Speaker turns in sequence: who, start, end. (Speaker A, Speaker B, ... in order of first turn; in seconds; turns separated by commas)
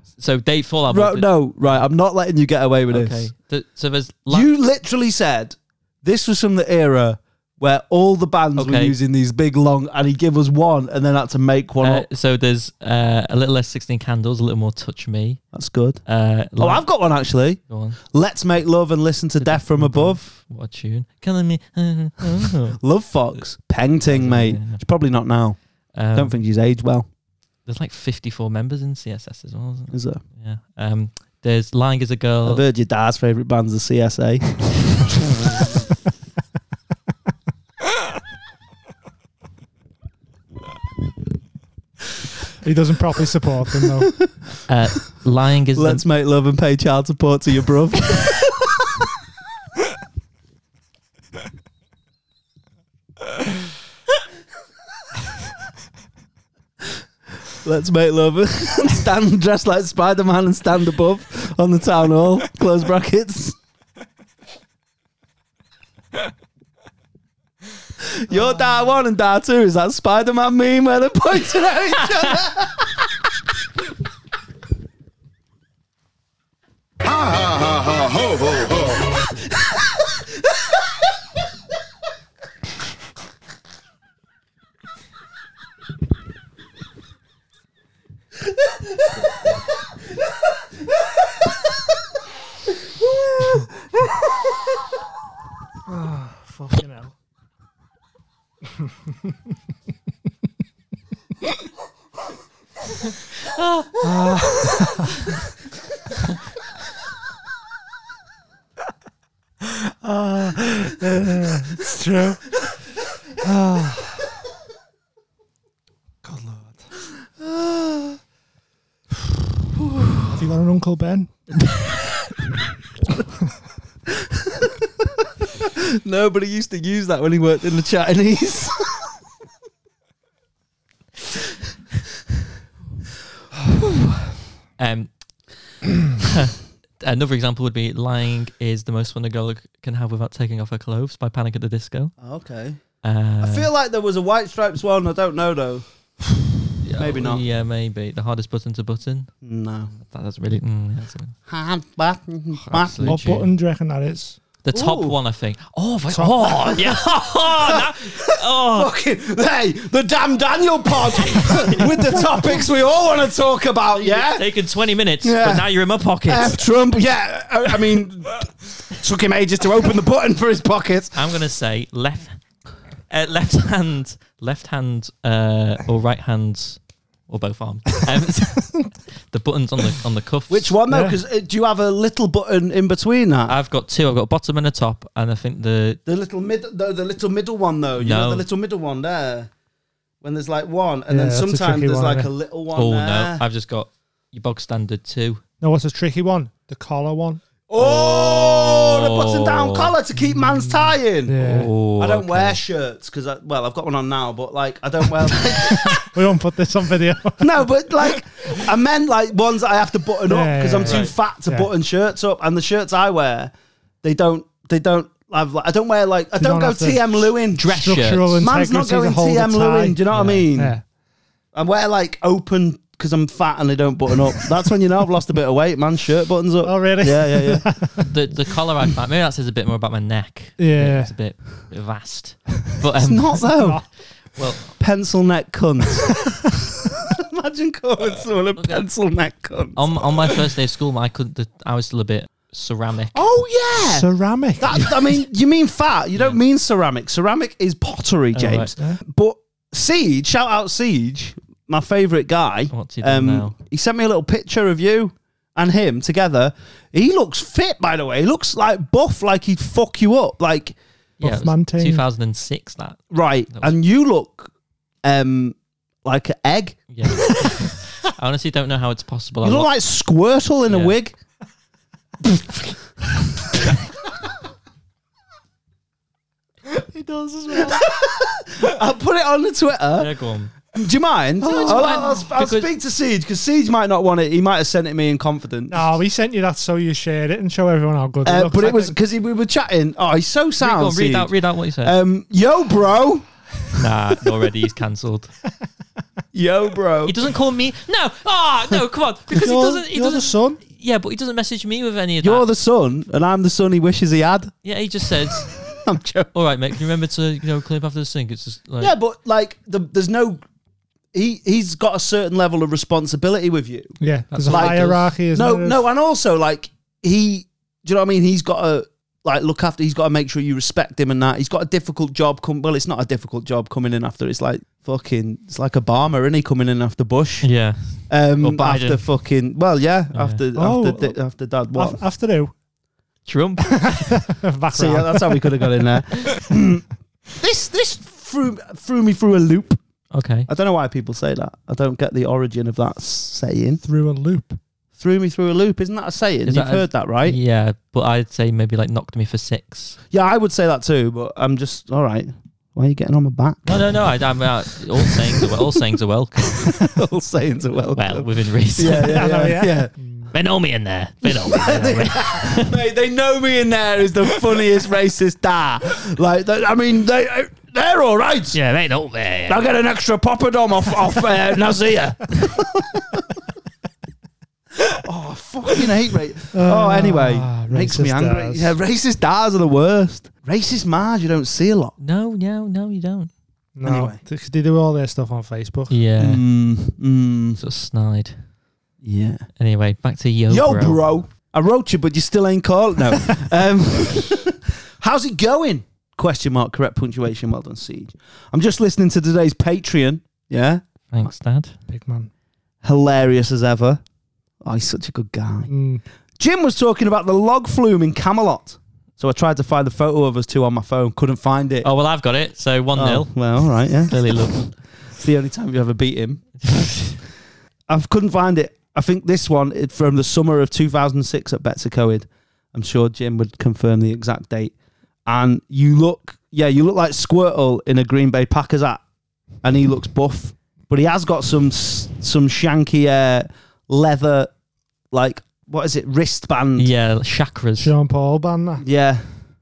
Speaker A: 0.2-1.8, Speaker B: 0.9-3.3, Speaker A: 2.9-4.5, Speaker B: 4.3-12.1, Speaker A: 8.6-8.9, Speaker A: 11.8-15.4, Speaker B: 15.5-16.0, Speaker A: 16.1-17.0, Speaker B: 16.6-20.2, Speaker A: 17.7-18.0, Speaker A: 19.4-22.8, Speaker B: 22.8-27.1, Speaker A: 24.1-24.8, Speaker A: 25.9-26.4, Speaker A: 27.6-32.6, Speaker B: 29.9-30.2, Speaker B: 32.4-34.6, Speaker C: 42.6-44.1, Speaker A: 44.7-46.0, Speaker B: 45.7-48.8, Speaker B: 57.6-63.6, Speaker B: 68.0-73.0, Speaker C: 95.9-97.1, Speaker A: 103.5-103.9, Speaker C: 104.0-105.1, Speaker C: 110.0-112.5, Speaker C: 113.4-114.2, Speaker C: 116.2-116.8, Speaker B: 117.4-118.2, Speaker C: 120.3-121.3, Speaker B: 124.4-124.9, Speaker B: 125.6-129.1, Speaker A: 134.8-135.4, Speaker A: 136.2-142.1, Speaker B: 142.2-142.8, Speaker A: 143.0-143.7, Speaker B: 143.4-145.8, Speaker B: 146.8-147.4, Speaker A: 146.8-149.3, Speaker B: 149.4-149.9, Speaker A: 149.9-151.3, Speaker B: 151.5-153.2, Speaker A: 152.6-153.5, Speaker C: 153.0-154.4, Speaker A: 154.6-158.9, Speaker B: 154.7-155.2, Speaker C: 156.1-156.5, Speaker B: 156.6-164.5, Speaker A: 161.2-162.3, Speaker A: 164.0-166.7, Speaker B: 165.2-165.7, Speaker B: 166.2-171.2, Speaker A: 171.1-172.4, Speaker A: 173.1-180.8, Speaker B: 180.5-183.6, Speaker C: 180.9-181.2, Speaker A: 183.5-186.0, Speaker B: 186.1-189.5, Speaker A: 188.0-188.4, Speaker B: 190.2-193.4, Speaker C: 191.1-192.3, Speaker A: 192.7-195.4, Speaker C: 195.6-197.4, Speaker B: 197.7-206.1, Speaker A: 197.8-199.9, Speaker C: 201.2-201.7, Speaker A: 201.4-202.6, Speaker C: 205.9-207.6, Speaker B: 207.4-217.7, Speaker C: 210.3-211.7, Speaker A: 210.8-211.1, Speaker C: 216.4-220.0, Speaker A: 217.6-218.4, Speaker B: 218.4-220.8, Speaker A: 220.1-220.5, Speaker C: 220.5-220.8, Speaker B: 221.5-227.9, Speaker C: 226.6-228.1, Speaker A: 228.1-234.7, Speaker C: 230.6-231.1, Speaker B: 233.0-233.8, Speaker C: 233.5-233.8, Speaker B: 234.7-236.4, Speaker B: 237.0-240.3, Speaker A: 238.6-238.8, Speaker A: 239.7-243.2, Speaker B: 243.1-260.8, Speaker C: 243.9-244.9, Speaker A: 246.1-246.4, Speaker A: 248.3-248.7, Speaker A: 252.7-253.5, Speaker A: 261.2-263.8, Speaker C: 261.2-262.0, Speaker B: 263.1-264.5, Speaker B: 265.0-267.3, Speaker A: 266.9-269.7, Speaker B: 269.4-271.1, Speaker A: 270.7-270.9, Speaker C: 276.8-277.8, Speaker B: 277.5-280.1, Speaker A: 280.0-280.5, Speaker B: 280.7-285.9, Speaker C: 281.4-282.2, Speaker A: 281.5-282.7, Speaker C: 285.7-288.9, Speaker B: 288.2-293.3, Speaker A: 290.6-291.9, Speaker A: 293.8-295.3, Speaker B: 296.3-297.2, Speaker A: 297.1-302.4, Speaker C: 299.3-300.6, Speaker B: 302.2-304.5, Speaker A: 304.6-305.8, Speaker B: 305.6-306.3, Speaker A: 306.3-308.9, Speaker B: 308.8-310.4, Speaker B: 311.1-332.0, Speaker C: 314.0-315.8, Speaker A: 314.3-315.1, Speaker A: 327.4-329.2, Speaker A: 330.1-330.4, Speaker C: 330.5-331.2, Speaker C: 331.7-332.6, Speaker A: 333.2-334.3, Speaker C: 334.2-335.7, Speaker B: 334.7-339.8, Speaker A: 340.1-340.5, Speaker B: 340.5-343.8, Speaker C: 343.8-344.6, Speaker B: 345.0-347.4, Speaker A: 346.4-350.0, Speaker B: 350.1-353.9, Speaker A: 353.6-356.9, Speaker B: 355.0-355.6, Speaker B: 356.4-359.9, Speaker A: 357.9-359.3, Speaker C: 359.0-360.3, Speaker A: 360.3-362.8, Speaker B: 361.2-368.6, Speaker A: 368.5-369.7, Speaker B: 369.4-373.2, Speaker B: 374.9-381.9, Speaker C: 376.5-378.7, Speaker A: 382.0-383.3, Speaker C: 383.7-385.9, Speaker B: 383.8-384.2, Speaker A: 385.9-386.4, Speaker B: 386.2-387.6, Speaker A: 387.6-388.5, Speaker B: 389.0-389.4, Speaker A: 389.6-391.0, Speaker B: 390.5-401.3, Speaker A: 401.1-401.7, Speaker C: 401.9-402.3, Speaker B: 402.8-404.0, Speaker B: 404.6-405.7, Speaker C: 405.7-406.0, Speaker B: 406.4-411.9, Speaker A: 411.8-414.7, Speaker B: 412.9-416.6, Speaker A: 416.6-417.2, Speaker B: 417.9-424.7, Speaker B: 425.2-429.0, Speaker B: 429.6-434.5, Speaker B: 435.1-436.9, Speaker A: 436.8-437.9, Speaker C: 437.8-438.8, Speaker B: 438.8-439.2